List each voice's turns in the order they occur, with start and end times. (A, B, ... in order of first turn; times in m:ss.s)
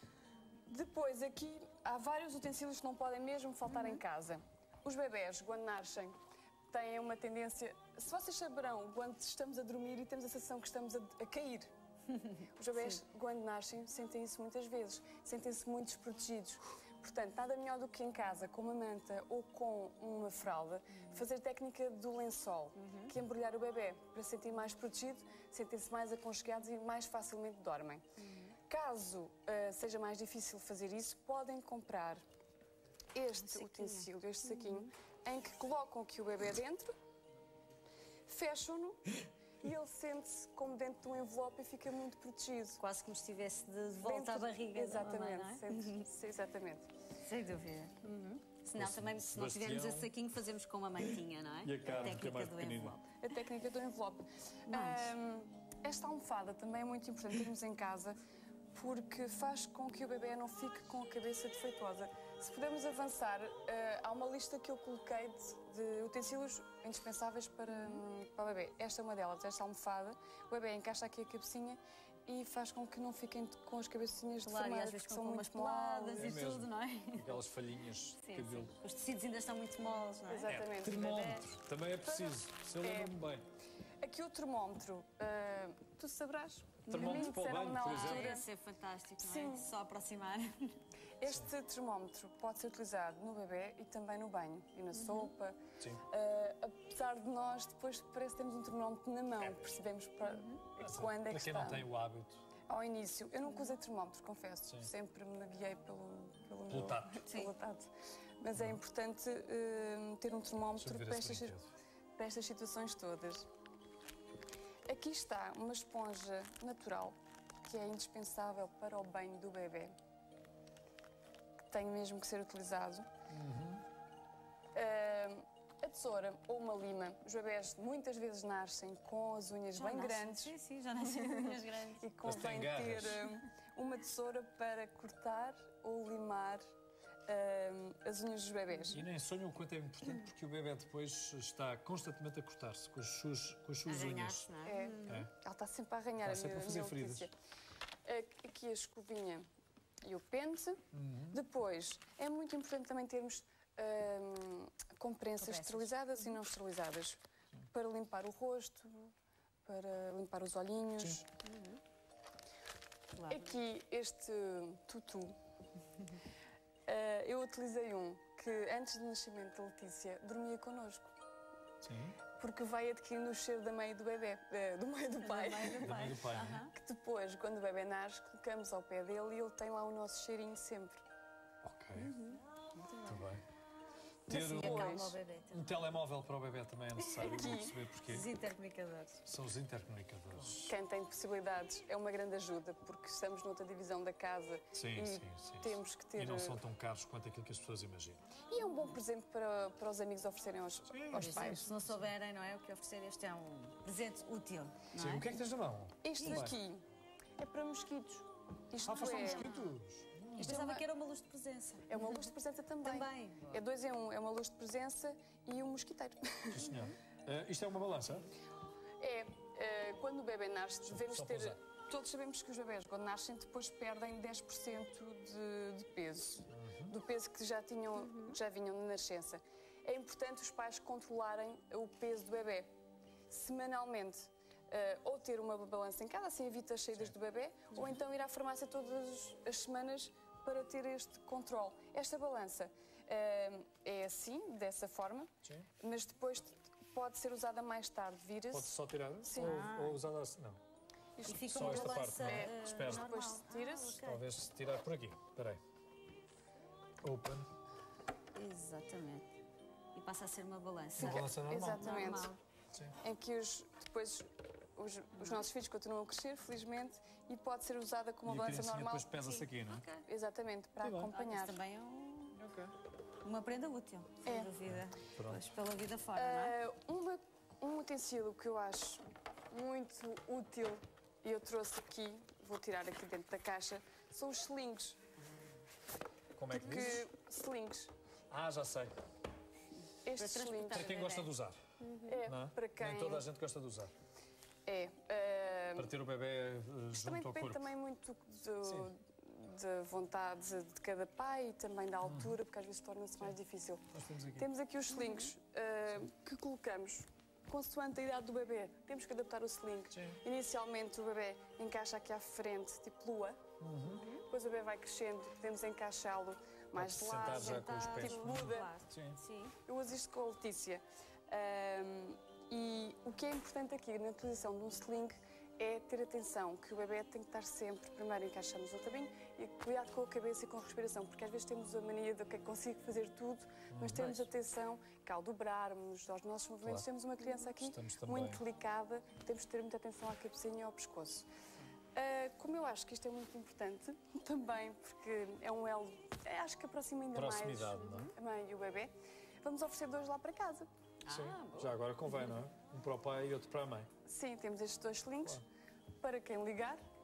0:00.7-0:06.2 A
0:03.7-0:04.0 B
0:06.7-0:11.7 A
0:12.3-0:28.0 A
0:21.0-0:21.2 B
0:22.8-0:23.1 B
0:28.2-0:28.5 B
0:28.6-0:32.2 A
0:33.1-0:36.9 A
0:33.3-0:34.1 B
0:38.3-0:42.8 A
0:42.8-0:46.0 B
0:44.0-0:46.9 A
0:47.2-0:53.1 B
0:48.8-0:50.1 C
0:51.0-0:53.0 C
0:53.2-0:58.2 A
0:54.7-0:55.1 B
0:58.7-1:16.4 A
1:14.4-1:17.4 B
1:16.2-1:18.7 C
1:18.2-1:21.5 B
1:20.3-1:21.3 A
1:20.4-1:23.4 C
1:22.0-1:23.2 A
1:24.0-1:28.5 A
1:26.8-1:28.4 C
1:26.9-1:27.3 B
1:27.8-1:30.8 B
1:29.2-1:29.7 A
1:31.2-1:41.8 A
1:35.0-1:35.3 B
1:40.8-1:42.4 C
1:42.7-1:51.6 A
1:46.7-1:47.2 C
1:47.2-1:47.5 B
1:50.8-1:51.7 C
1:52.2-1:53.4 A
1:54.9-1:59.9 A
2:01.7-2:03.1 A
2:03.3-2:03.8 C
2:04.7-2:16.6 A
2:09.8-2:12.3 B
2:12.2-2:13.2 C
2:17.3-2:19.0 A
2:18.9-2:24.5 C
2:23.8-2:25.3 B
2:24.6-2:27.3 A
2:26.2-2:27.3 C
2:28.0-2:29.4 A
2:30.0-2:39.1 A
2:30.9-2:31.4 C
2:35.4-2:35.9 B
2:39.6-2:41.3 A
2:41.4-2:41.8 B
2:43.1-2:43.6 B
2:43.3-2:45.3 A
2:46.9-2:51.1 A
2:51.8-2:52.2 C
2:52.4-3:01.0 A
2:55.2-2:56.7 B
2:55.8-2:56.6 C
3:01.6-3:02.1 C
3:02.0-3:03.2 B
3:03.0-3:03.4 C
3:04.3-3:05.2 A
3:04.3-3:04.9 C
3:04.3-3:05.8 B
3:05.5-3:08.3 C
3:07.0-3:07.8 A
3:08.0-3:09.2 B
3:09.2-3:10.7 C
3:10.6-3:16.6 A
3:14.7-3:18.2 C
3:18.5-3:21.7 A
3:20.9-3:21.8 C
3:21.1-3:25.4 B
3:24.9-3:26.6 C
3:26.0-3:26.8 A
3:26.2-3:26.5 B
3:27.4-3:29.7 A
3:28.8-3:29.7 B
3:28.8-3:30.6 C
3:30.4-3:32.3 B
3:30.4-3:30.8 A
3:31.9-3:36.7 A
3:32.8-3:33.6 B
3:36.5-3:38.3 C
3:39.0-3:52.7 A
3:40.9-3:41.6 C
3:46.5-3:46.9 C
3:53.3-4:09.7 A
4:05.4-4:05.7 C
4:08.5-4:10.6 C
4:09.4-4:10.0 B
4:11.2-4:14.0 A
4:11.2-4:14.3 B
4:11.4-4:13.1 C
4:14.0-4:15.6 C
4:17.0-4:17.5 C
4:18.3-4:19.3 B
4:19.9-4:22.4 B
4:21.0-4:22.0 C
4:21.0-4:22.3 A
4:23.0-4:29.2 A
4:28.2-4:29.8 C
4:29.2-4:30.0 B
4:30.0-4:31.6 A
4:30.8-4:31.1 C
4:31.1-4:32.4 B
4:32.4-4:32.7 C
4:33.2-4:36.6 B
4:34.2-4:34.5 A
4:34.6-4:35.4 C
4:36.1-4:45.0 A
4:46.4-4:47.0 C
4:46.5-4:47.9 A
4:48.3-4:49.0 C
4:50.0-4:50.9 A
4:50.2-4:51.3 B
4:50.7-4:51.6 C
4:51.8-4:52.2 B
4:52.0-4:53.2 A
4:52.2-4:53.9 C
4:54.6-4:55.9 A
4:55.8-4:57.7 C
4:56.9-5:13.4 A
4:58.6-4:58.9 C
5:02.0-5:02.4 C
5:03.9-5:04.5 C
5:09.9-5:10.2 C
5:13.6-5:14.0 C
5:13.9-5:14.2 B
5:14.2-5:18.7 A
5:16.7-5:19.2 C
5:17.2-5:19.5 B
5:19.6-5:41.2 A
5:33.7-5:34.2 C
5:37.6-5:38.4 C
5:41.9-5:48.9 A
5:47.1-5:48.1 C
5:47.8-5:48.1 B
5:49.4-5:50.7 A
5:51.0-5:51.8 B
5:51.0-5:53.9 C
5:54.0-5:55.4 A
5:56.0-5:56.8 A